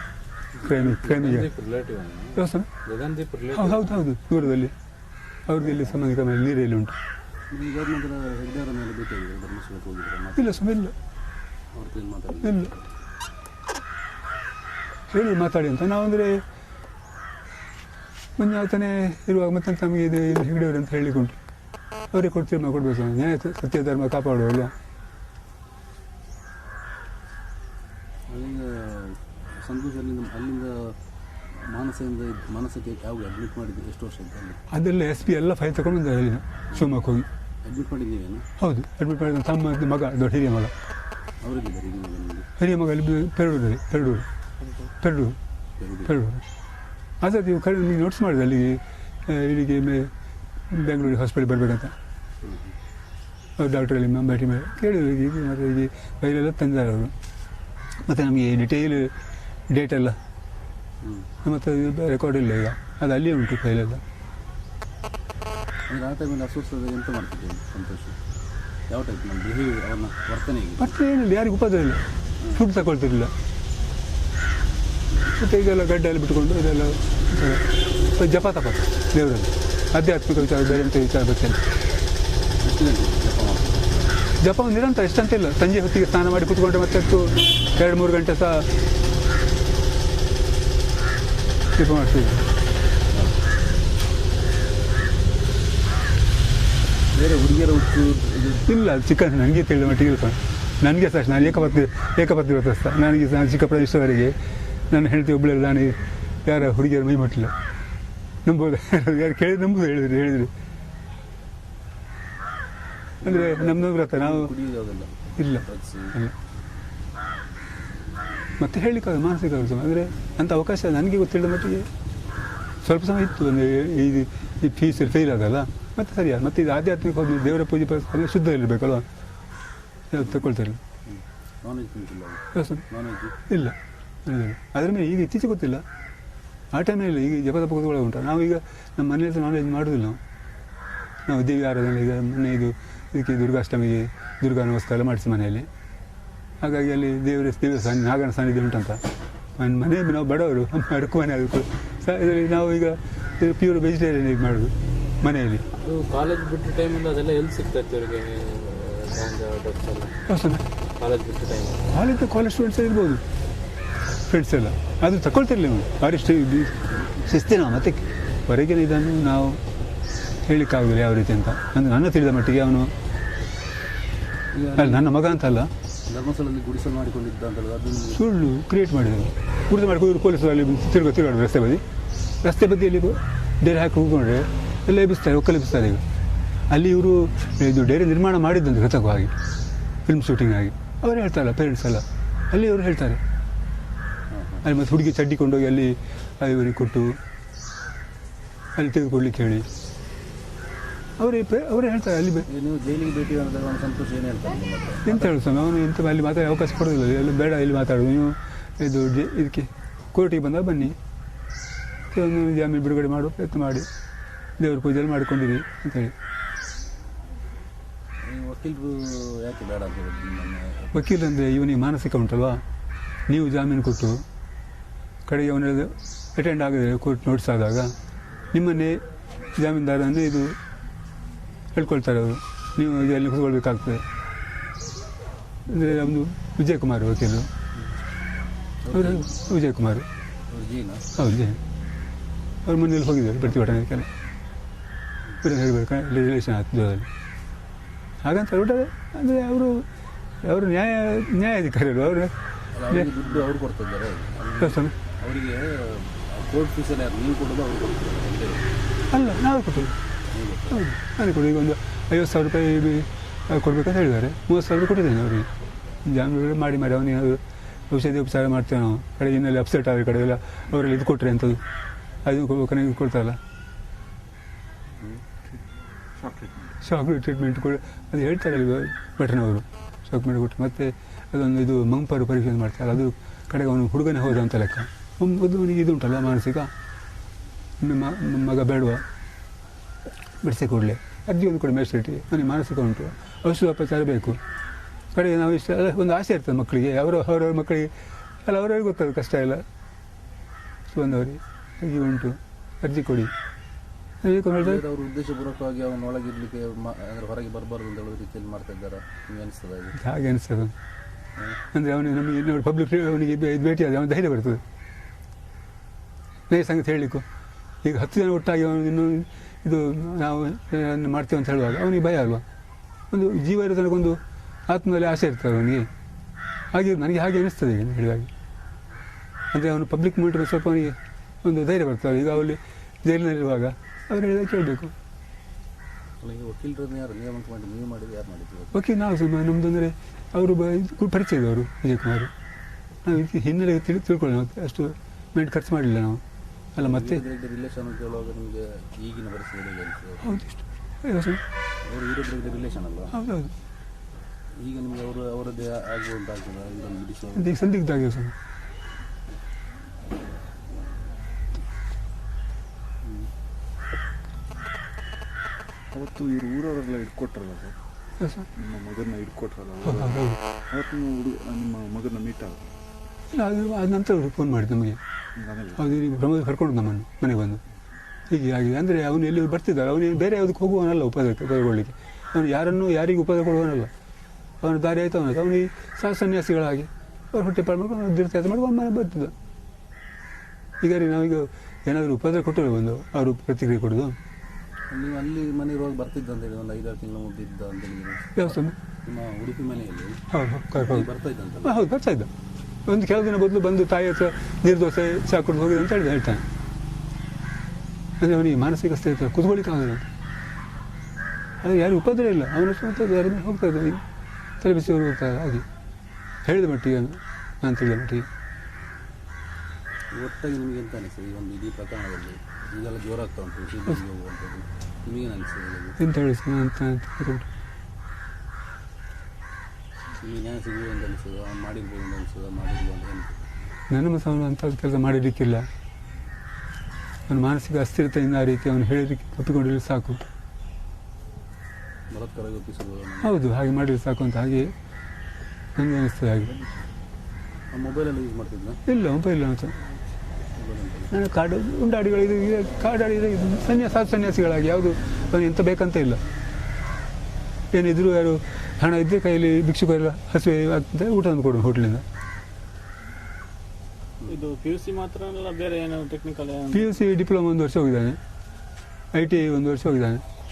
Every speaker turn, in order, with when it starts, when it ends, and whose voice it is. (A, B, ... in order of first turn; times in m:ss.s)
0:00.6-0:01.5 A
0:00.6-0:04.1 B
0:02.4-0:02.7 A
0:03.5-0:04.7 A
0:05.5-0:07.0 A
0:07.5-0:10.6 C
0:10.4-0:11.0 A
0:11.7-0:12.9 C
0:12.4-0:12.7 A
0:15.1-0:16.4 A
0:18.4-0:21.4 A
0:22.1-0:24.7 A
0:28.3-0:31.0 C
0:31.5-0:34.6 C
0:34.7-0:37.3 A
0:37.6-0:38.5 C
0:38.6-0:40.7 A
0:41.4-0:42.5 C
0:42.6-0:44.3 A
0:45.0-0:45.4 A
0:45.8-0:46.1 C
0:46.1-0:46.4 A
0:47.2-0:50.1 A
0:50.7-0:51.9 A
0:52.4-0:52.8 C
0:53.6-0:57.1 A
0:58.0-0:59.2 A
0:59.7-1:00.2 A
1:01.0-1:01.3 C
1:01.4-1:04.0 A
1:05.9-1:08.2 C
1:08.9-1:10.9 C
1:10.8-1:12.0 A
1:12.6-1:13.3 A
1:15.3-1:21.6 A
1:22.6-1:24.2 C
1:24.4-1:28.7 A
1:31.8-1:32.5 A
1:33.1-1:33.4 C
1:37.1-1:38.7 C
1:38.7-1:44.4 A
1:44.9-1:47.5 A
1:48.4-1:50.5 A
1:53.2-1:56.2 C
1:53.2-1:54.5 A
1:55.4-1:56.4 A
1:58.6-2:01.9 A
2:02.8-2:09.1 A
2:10.1-2:10.8 A
2:11.1-2:13.4 C
2:12.5-2:12.8 A
2:13.5-2:15.8 A
2:16.7-2:20.2 A
2:21.3-2:25.7 A
2:26.6-2:29.0 A
2:29.6-2:35.6 A
2:35.7-2:40.2 B
2:40.3-2:40.7 A
2:41.0-2:41.9 B
2:41.9-2:43.2 A
2:44.3-2:49.6 A
2:50.4-2:52.9 A
2:54.5-2:55.2 C
2:54.8-2:55.7 A
2:56.1-2:58.2 C
2:58.1-3:01.8 A
3:02.4-3:06.0 A
3:06.7-3:09.3 A
3:10.1-3:13.2 A
3:14.3-3:14.7 C
3:14.6-3:17.2 A
3:18.8-3:19.7 A
3:21.2-3:22.5 A
3:22.5-3:25.3 C
3:25.0-3:31.0 A
3:32.1-3:33.9 A
3:34.6-3:36.1 A
3:38.2-3:41.0 C
3:40.9-3:42.6 A
3:43.3-3:44.2 A
3:45.3-3:47.9 A
3:48.5-3:50.6 A
3:51.7-3:54.0 A
3:55.7-3:57.5 A
3:58.8-3:59.3 C
3:58.9-4:00.1 A
4:00.5-4:01.2 C
4:01.2-4:01.6 A
4:02.6-4:04.1 A
4:05.4-4:07.1 A
4:08.2-4:09.9 A
4:10.4-4:12.3 A
4:12.7-4:18.6 C
4:14.6-4:14.9 A
4:19.1-4:20.0 A
4:20.3-4:20.9 C
4:20.7-4:25.5 A
4:26.0-4:31.6 A
4:32.2-4:33.4 A
4:36.2-4:36.8 D
4:36.8-4:46.7 A
4:47.8-4:49.0 A
4:50.4-4:54.4 A
4:55.1-4:57.9 A
4:58.4-4:59.6 A
5:00.9-5:03.3 A
5:04.2-5:04.8 A
5:04.5-5:10.0 C
5:10.0-5:10.7 A
5:11.7-5:14.6 A
5:16.5-5:17.2 A
5:17.8-5:22.4 A
5:23.1-5:25.9 A
5:26.7-5:28.3 A
5:29.5-5:34.9 A
5:36.2-5:38.8 C
5:38.7-5:42.3 A
5:43.0-5:46.2 A
5:46.8-5:47.2 A
5:46.8-5:50.4 C
5:50.2-5:51.4 A
5:51.8-5:53.2 C
5:53.1-5:53.5 A
5:54.6-5:57.6 C
5:57.4-5:58.4 A
6:03.0-6:03.3 C
6:05.9-6:07.8 D
6:08.2-6:08.5 A
6:08.6-6:12.7 D
6:09.8-6:10.4 A
6:13.3-6:15.0 A
6:15.4-6:16.0 D
6:15.8-6:17.6 A
6:18.3-6:23.9 A
6:24.6-6:29.3 A
6:30.8-6:34.2 A
6:34.9-6:38.5 C
6:38.4-6:38.8 A
6:39.0-6:40.2 C
6:40.3-6:41.1 A
6:40.8-6:41.8 C
6:41.6-6:42.3 A
6:42.9-6:46.4 A
6:48.2-6:50.1 A
6:51.6-6:54.0 A
6:54.6-6:55.7 A
6:56.4-6:58.3 A
7:00.1-7:06.0 C
7:06.0-7:07.5 A
7:10.2-7:13.4 C
7:13.9-7:15.7 A
7:17.3-7:20.2 A
7:22.1-7:23.3 C
7:23.2-7:24.7 A
7:25.8-7:26.6 A
7:27.7-7:28.8 C
7:28.9-7:29.8 A
7:30.6-7:31.1 C
7:31.1-7:36.2 A
7:37.7-7:42.0 A
7:44.3-7:46.9 B
7:46.7-7:48.2 A
7:49.1-7:50.2 A